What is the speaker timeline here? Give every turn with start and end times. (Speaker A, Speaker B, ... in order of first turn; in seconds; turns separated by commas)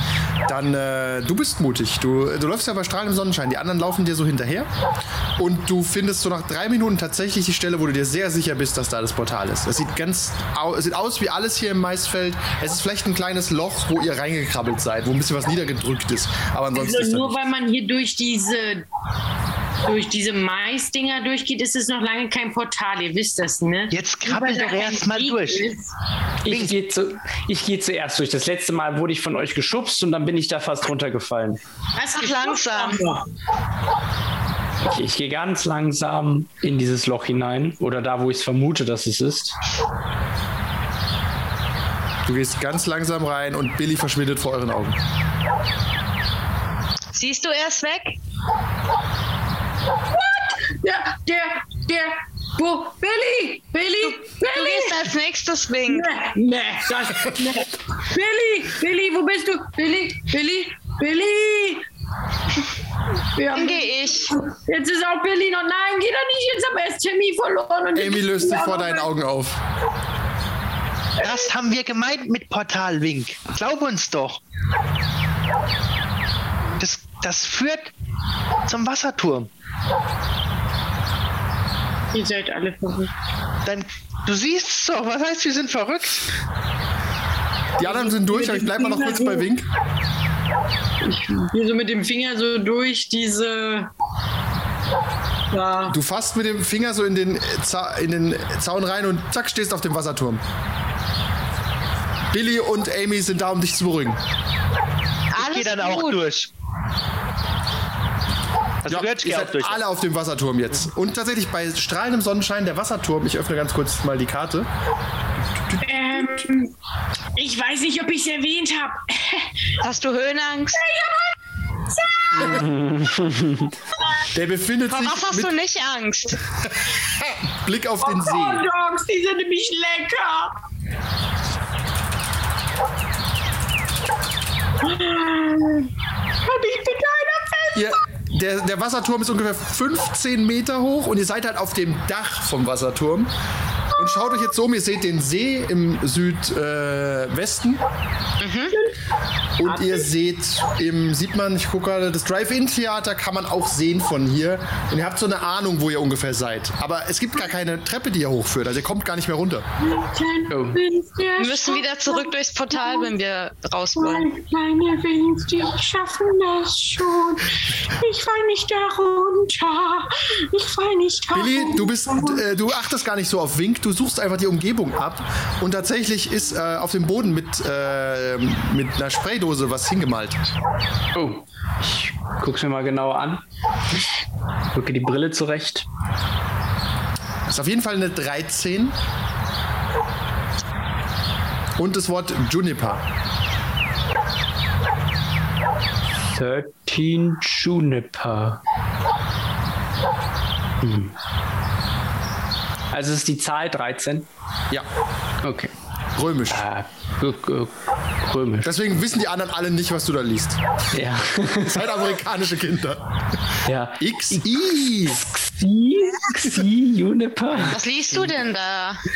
Speaker A: 0.5-4.7, Speaker A: 5.4-17.4, Speaker B: 16.7-18.9, Speaker B: 19.9-25.9, Speaker C: 23.9-25.6, Speaker D: 26.4-31.6, Speaker C: 26.4-26.7, Speaker B: 31.9-33.3, Speaker E: 32.1-33.0, Speaker D: 34.9-39.6, Speaker A: 42.2-45.0, Speaker E: 47.1-48.1, Speaker B: 50.1-55.1, Speaker E: 54.0-56.1, Speaker B: 55.9-61.9, Speaker B: 63.4-69.1, Speaker E: 63.5-64.3, Speaker A: 67.9-69.6, Speaker B: 71.2-71.5, Speaker C: 71.2-74.4, Speaker C: 76.8-77.9, Speaker C: 78.7-79.5, Speaker B: 82.1-83.1, Speaker C: 83.7-86.2, Speaker A: 87.8-89.7, Speaker B: 87.8-89.5, Speaker B: 91.0-93.9, Speaker B: 95.5-96.0, Speaker A: 95.9-100.4, Speaker A: 102.3-104.2, Speaker E: 105.3-106.2, Speaker C: 105.4-106.5, Speaker C: 108.8-109.8, Speaker A: 108.9-114.7, Speaker B: 115.8-116.7, Speaker B: 117.4-119.5, Speaker E: 119.8-120.8, Speaker B: 120.7-121.4, Speaker B: 121.9-122.7, Speaker D: 122.4-123.7, Speaker A: 124.3-125.5, Speaker E: 124.9-126.4, Speaker A: 126.6-128.7, Speaker B: 128.0-130.5, Speaker B: 134.8-135.9, Speaker B: 136.4-137.9, Speaker A: 137.7-143.3, Speaker A: 143.9-147.8, Speaker E: 148.4-148.8, Speaker A: 149.6-159.7, Speaker B: 149.7-150.1, Speaker B: 159.8-163.1, Speaker D: 160.5-160.8, Speaker E: 161.4-164.3, Speaker B: 163.9-172.4, Speaker A: 171.3-180.4, Speaker D: 181.1-183.4, Speaker D: 184.7-185.9, Speaker A: 187.4-189.0, Speaker A: 191.8-193.0, Speaker D: 196.2-198.6, Speaker D: 200.8-201.1, Speaker D: 202.9-204.3, Speaker D: 205.4-205.7, Speaker A: 206.2-206.6, Speaker D: 206.5-208.7, Speaker A: 208.6-210.6, Speaker D: 210.9-212.0, Speaker A: 211.6-213.0, Speaker D: 213.7-217.8, Speaker A: 214.0-215.2, Speaker E: 217.7-219.0